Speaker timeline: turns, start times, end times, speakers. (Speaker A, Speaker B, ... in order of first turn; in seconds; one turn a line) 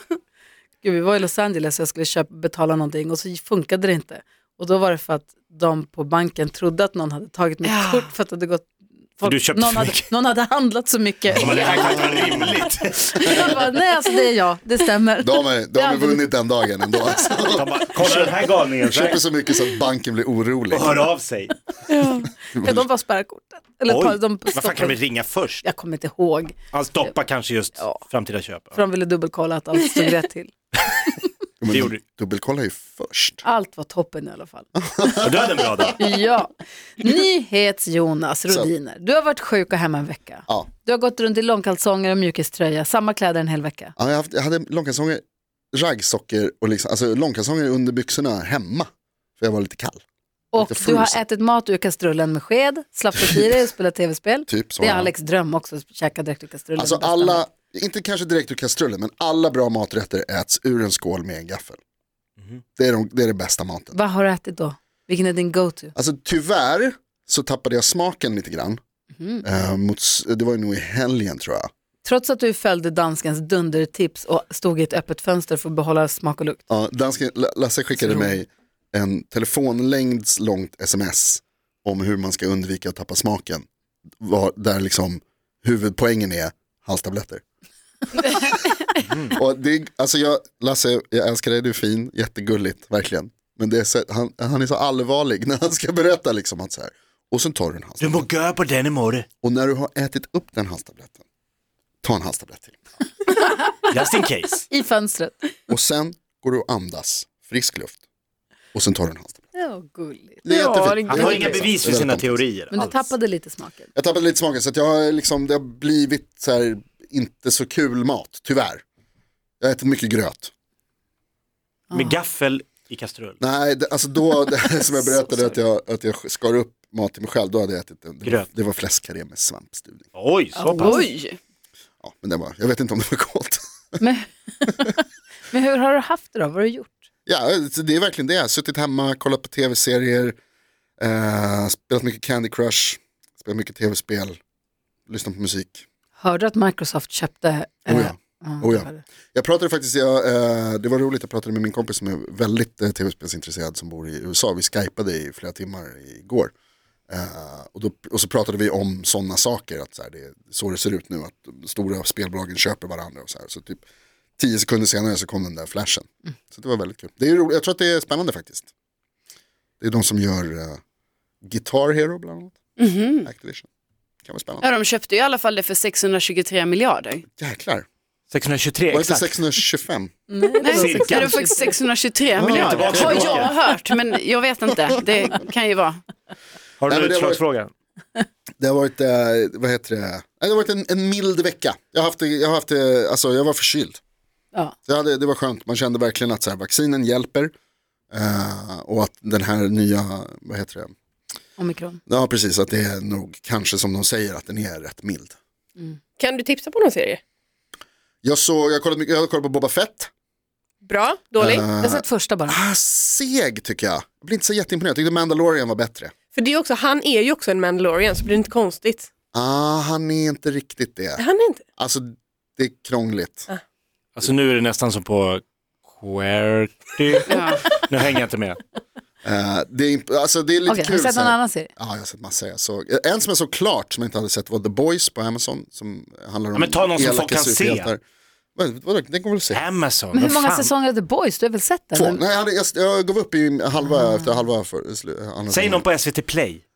Speaker A: 0.8-12.5
Speaker B: 7.6-8.1
Speaker C: 9.2-10.1
Speaker C: 11.3-13.5
Speaker D: 11.5-12.6
Speaker A: 13.2-16.3
Speaker D: 13.3-13.5
Speaker D: 15.2-21.1
Speaker C: 17.6-19.2
Speaker C: 20.7-21.6
Speaker A: 21.9-25.0
Speaker D: 22.5-22.9
Speaker C: 23.9-25.6
Speaker A: 25.6-26.6
Speaker C: 26.7-28.8
Speaker A: 28.7-30.5
Speaker D: 31.6-33.4
Speaker C: 31.7-32.0
Speaker A: 33.4-35.1
Speaker D: 34.8-35.9
Speaker C: 35.2-36.0
Speaker A: 36.0-44.0
Speaker D: 44.0-45.2
Speaker D: 45.7-50.0
Speaker A: 50.5-57.4
Speaker D: 50.6-51.2
Speaker D: 54.5-55.1
Speaker D: 56.8-61.8
Speaker D: 62.8-64.0
Speaker A: 63.9-65.9
Speaker D: 66.0-68.8
Speaker A: 69.2-69.4
Speaker D: 69.4-71.7
Speaker A: 72.0-76.6
Speaker D: 76.7-83.7
Speaker A: 78.0-78.3
Speaker D: 84.2-87.4
Speaker D: 89.3-98.2
Speaker C: 98.0-99.3
Speaker D: 99.4-101.2
Speaker D: 102.0-102.9
Speaker C: 103.9-104.7
Speaker A: 104.7-105.5
Speaker D: 105.7-108.0
Speaker D: 108.7-109.4
Speaker A: 109.5-110.5
Speaker D: 110.5-112.4
Speaker B: 110.5-111.6
Speaker C: 111.1-113.1
Speaker A: 112.7-113.9
Speaker D: 114.0-118.8
Speaker D: 119.6-120.5
Speaker C: 121.9-123.4
Speaker D: 123.4-130.1
Speaker A: 124.9-125.5
Speaker C: 130.2-131.0
Speaker A: 130.6-131.1
Speaker B: 130.7-131.4
Speaker D: 132.0-134.0
Speaker A: 134.0-135.0
Speaker A: 135.5-137.0
Speaker D: 137.3-140.4
Speaker D: 141.0-144.4
Speaker D: 145.1-145.8
Speaker A: 146.2-149.0
Speaker D: 147.9-156.5
Speaker D: 157.1-163.8
Speaker D: 164.4-168.7
Speaker D: 169.8-170.8
Speaker D: 171.4-172.6
Speaker B: 172.8-173.3
Speaker D: 173.2-173.7
Speaker D: 174.2-174.7
Speaker B: 174.6-177.2
Speaker D: 177.3-177.9
Speaker C: 178.3-179.4
Speaker D: 178.9-180.1
Speaker A: 180.3-181.8
Speaker B: 180.6-186.0
Speaker C: 180.7-181.4
Speaker D: 182.3-183.5
Speaker C: 182.4-183.5
Speaker A: 182.8-183.6
Speaker C: 186.8-187.7
Speaker D: 186.9-187.4
Speaker D: 188.6-194.0
Speaker D: 194.9-197.5
Speaker D: 198.1-200.9
Speaker A: 201.6-202.0
Speaker D: 202.1-205.3
Speaker E: 206.2-207.2
Speaker D: 208.2-210.1
Speaker E: 210.8-211.7
Speaker D: 211.4-216.1
Speaker A: 211.8-212.6
Speaker E: 216.3-219.1
Speaker D: 219.3-221.2
Speaker E: 221.2-221.6
Speaker D: 221.8-223.5
Speaker C: 224.2-228.6
Speaker B: 227.3-227.7
Speaker D: 229.2-238.0
Speaker A: 230.7-231.7
Speaker C: 236.5-237.9
Speaker D: 238.6-239.6
Speaker C: 239.5-240.7
Speaker A: 240.1-242.2
Speaker D: 241.9-245.8
Speaker C: 245.5-246.6